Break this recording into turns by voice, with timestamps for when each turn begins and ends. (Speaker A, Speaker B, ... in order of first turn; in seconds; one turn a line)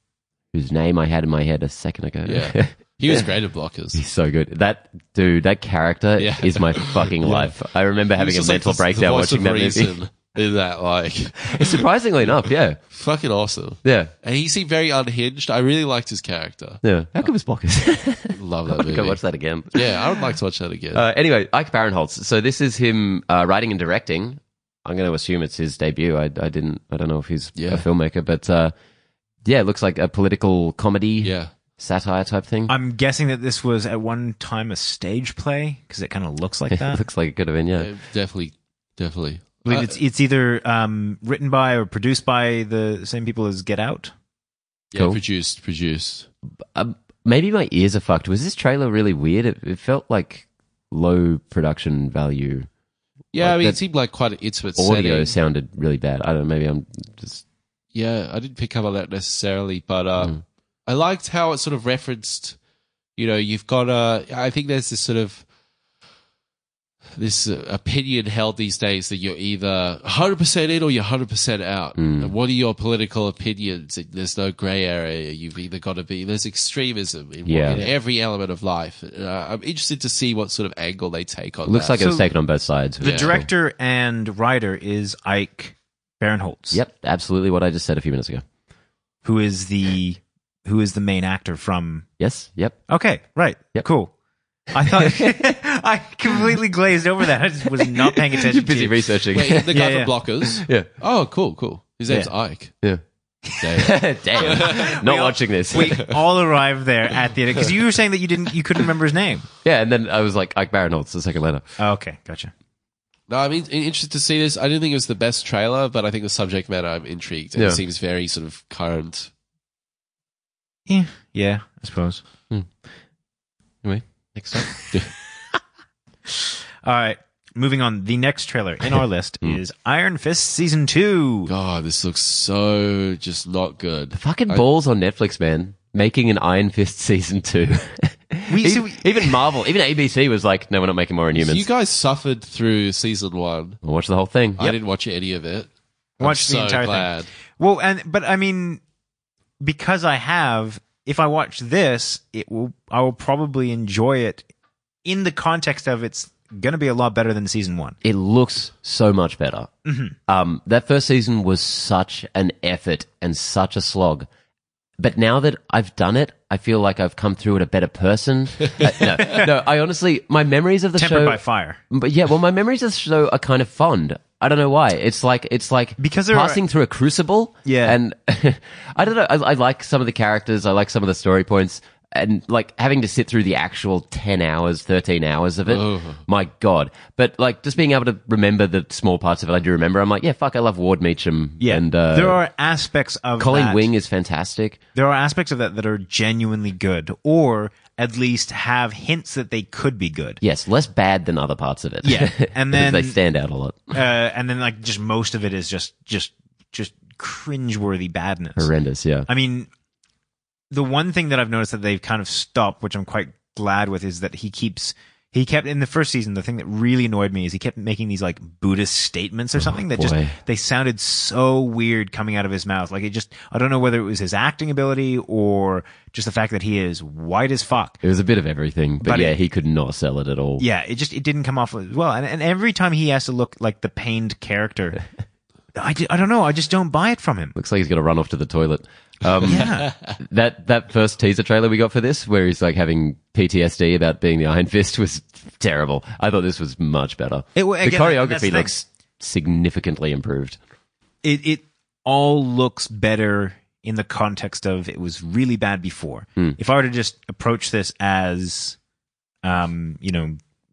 Speaker A: 0.5-3.3
Speaker B: 2.2-4.0
Speaker A: 3.9-9.9
Speaker B: 6.2-7.6
Speaker B: 8.1-11.8
Speaker A: 11.4-12.8
Speaker B: 12.9-17.3
Speaker A: 13.8-14.1
Speaker A: 16.8-20.2
Speaker B: 18.3-19.2
Speaker B: 19.7-21.0
Speaker A: 20.9-28.7
Speaker B: 27.5-27.8
Speaker A: 29.4-32.7
Speaker B: 31.2-31.5
Speaker C: 32.7-37.0
Speaker A: 36.7-37.9
Speaker B: 37.8-39.9
Speaker C: 39.6-44.1
Speaker B: 44.9-46.3
Speaker A: 44.9-45.2
Speaker A: 46.7-52.7
Speaker B: 53.3-55.4
Speaker A: 53.4-53.8
Speaker A: 54.8-57.4
Speaker B: 57.9-62.6
Speaker B: 63.1-65.5
Speaker B: 67.2-82.1
Speaker A: 72.0-72.3
Speaker A: 77.5-77.8
Speaker A: 81.7-83.5
Speaker C: 82.0-82.3
Speaker C: 83.0-86.8
Speaker B: 83.0-83.3
Speaker A: 86.7-88.4
Speaker C: 89.2-92.0
Speaker A: 92.2-92.8
Speaker C: 92.9-94.1
Speaker C: 94.7-100.4
Speaker A: 94.8-95.5
Speaker A: 97.8-99.7
Speaker B: 99.3-102.8
Speaker B: 103.6-105.0
Speaker A: 103.7-106.0
Speaker C: 104.5-109.5
Speaker A: 109.6-111.6
Speaker C: 111.8-112.5
Speaker B: 113.3-119.3
Speaker C: 120.9-122.2
Speaker A: 123.8-124.7
Speaker C: 126.3-131.5
Speaker B: 131.5-134.6
Speaker A: 134.2-141.7
Speaker C: 138.5-139.5
Speaker B: 141.3-143.8
Speaker A: 143.8-144.7
Speaker B: 144.6-147.3
Speaker C: 146.2-148.8
Speaker C: 149.6-154.5
Speaker C: 155.0-158.0
Speaker A: 158.0-159.7
Speaker C: 159.8-160.2
Speaker A: 160.3-164.3
Speaker A: 165.0-192.4
Speaker C: 169.0-169.5
Speaker C: 171.0-171.8
Speaker C: 176.0-176.6
Speaker C: 177.6-178.0
Speaker B: 185.7-186.2
Speaker C: 191.6-193.8
Speaker A: 193.4-194.8
Speaker C: 194.9-200.4
Speaker A: 200.4-204.0
Speaker C: 202.0-203.2
Speaker C: 203.9-208.7
Speaker A: 208.6-209.3
Speaker C: 209.3-209.7
Speaker C: 210.7-228.0
Speaker A: 219.6-220.3
Speaker A: 228.0-230.6
Speaker C: 229.0-229.4
Speaker C: 230.6-235.0
Speaker C: 235.7-237.6
Speaker A: 237.6-250.6
Speaker C: 239.4-239.9
Speaker B: 239.6-240.1
Speaker C: 247.6-248.7
Speaker C: 251.2-258.8
Speaker C: 259.4-260.4